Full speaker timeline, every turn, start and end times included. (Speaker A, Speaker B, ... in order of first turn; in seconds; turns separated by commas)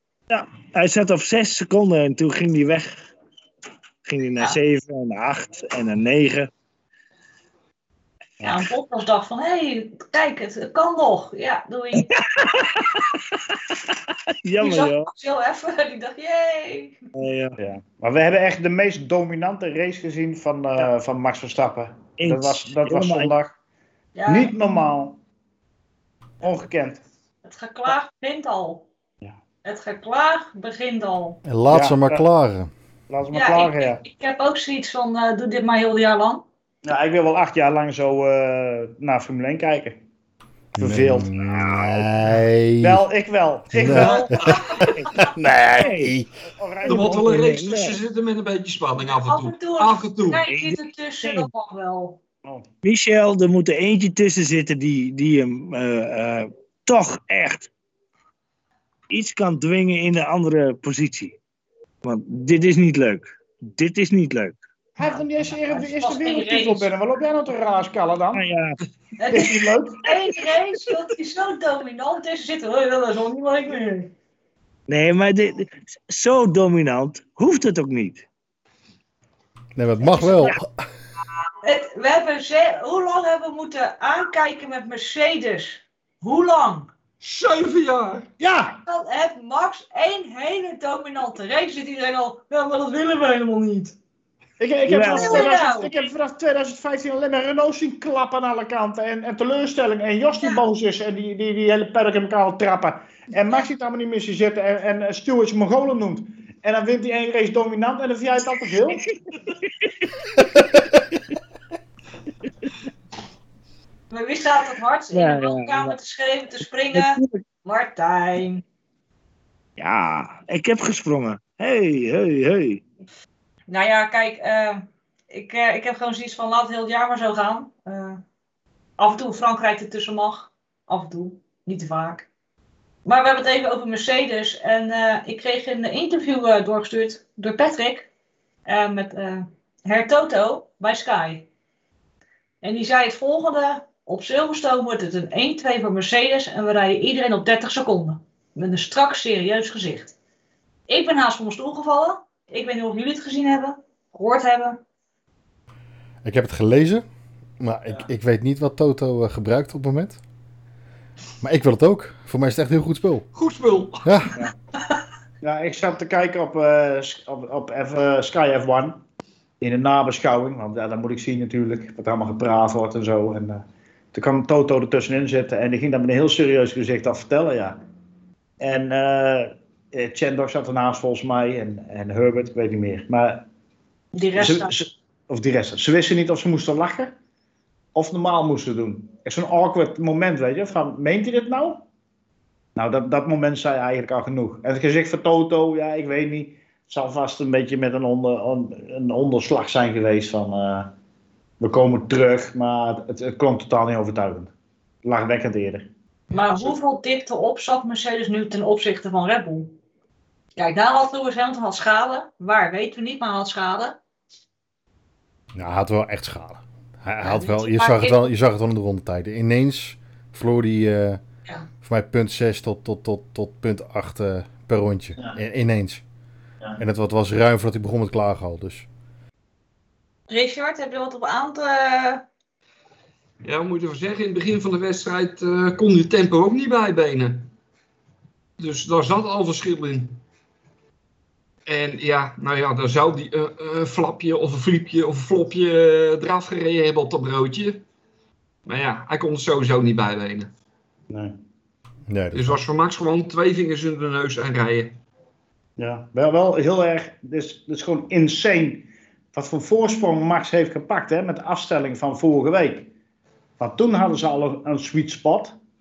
Speaker A: 0.3-3.0, Speaker A: 4.0-6.5, Speaker B: 8.4-12.1, Speaker A: 12.0-15.1, Speaker B: 14.6-17.0, Speaker A: 17.1-17.6, Speaker C: 17.6-23.5, Speaker A: 22.2-23.3, Speaker B: 24.1-24.5, Speaker C: 24.3-25.2, Speaker C: 26.4-27.0, Speaker B: 27.4-28.9, Speaker B: 29.6-31.4, Speaker D: 31.4-32.7, Speaker C: 31.7-32.2, Speaker C: 33.1-34.0, Speaker B: 33.3-36.5, Speaker C: 36.9-40.0, Speaker D: 40.8-43.0, Speaker C: 40.8-41.4, Speaker A: 41.6-42.0, Speaker C: 42.8-44.5, Speaker D: 43.7-46.1, Speaker E: 43.8-44.8, Speaker B: 43.9-45.2, Speaker A: 45.0-46.2, Speaker C: 46.5-47.4, Speaker A: 46.8-48.0, Speaker E: 46.9-50.5, Speaker B: 49.2-52.2, Speaker A: 50.5-51.5, Speaker A: 52.8-57.7, Speaker A: 59.1-61.4, Speaker A: 62.0-64.6, Speaker C: 65.0-68.5, Speaker B: 65.7-66.9, Speaker A: 68.3-68.8, Speaker B: 69.2-74.1, Speaker C: 69.3-70.1, Speaker A: 74.9-78.3, Speaker D: 79.8-80.7, Speaker B: 80.2-80.5, Speaker B: 81.6-86.9, Speaker E: 87.2-88.3, Speaker C: 88.4-88.8, Speaker B: 88.9-94.0, Speaker C: 94.6-109.0, Speaker A: 94.9-95.5, Speaker B: 95.1-95.9, Speaker A: 109.5-109.9, Speaker B: 114.1-118.6, Speaker A: 115.1-116.0, Speaker A: 116.9-117.4, Speaker A: 119.8-122.8, Speaker B: 123.7-128.2, Speaker B: 129.0-132.3, Speaker B: 133.1-138.1, Speaker B: 138.7-141.5, Speaker B: 142.6-150.1, Speaker B: 150.9-154.8, Speaker D: 156.2-157.0, Speaker D: 157.6-160.2, Speaker D: 161.4-163.3, Speaker E: 163.3-164.2, Speaker D: 164.0-164.3, Speaker C: 165.4-169.0, Speaker C: 169.6-177.8, Speaker C: 178.6-183.5, Speaker B: 184.1-184.7, Speaker C: 184.4-187.1, Speaker C: 187.9-191.9, Speaker C: 192.8-200.9, Speaker C: 201.6-204.5, Speaker C: 205.0-205.9, Speaker B: 206.3-209.8, Speaker B: 210.6-214.0, Speaker D: 215.6-221.2, Speaker B: 217.2-218.3, Speaker D: 221.8-226.0, Speaker D: 226.8-228.9, Speaker B: 230.3-232.2, Speaker E: 233.4-237.5, Speaker E: 238.6-240.2, Speaker E: 241.7-247.8, Speaker E: 248.7-250.5, Speaker C: 251.1-251.4, Speaker D: 252.1-252.6, Speaker E: 252.3-255.0, Speaker C: 255.8-262.9, Speaker C: 263.6-265.6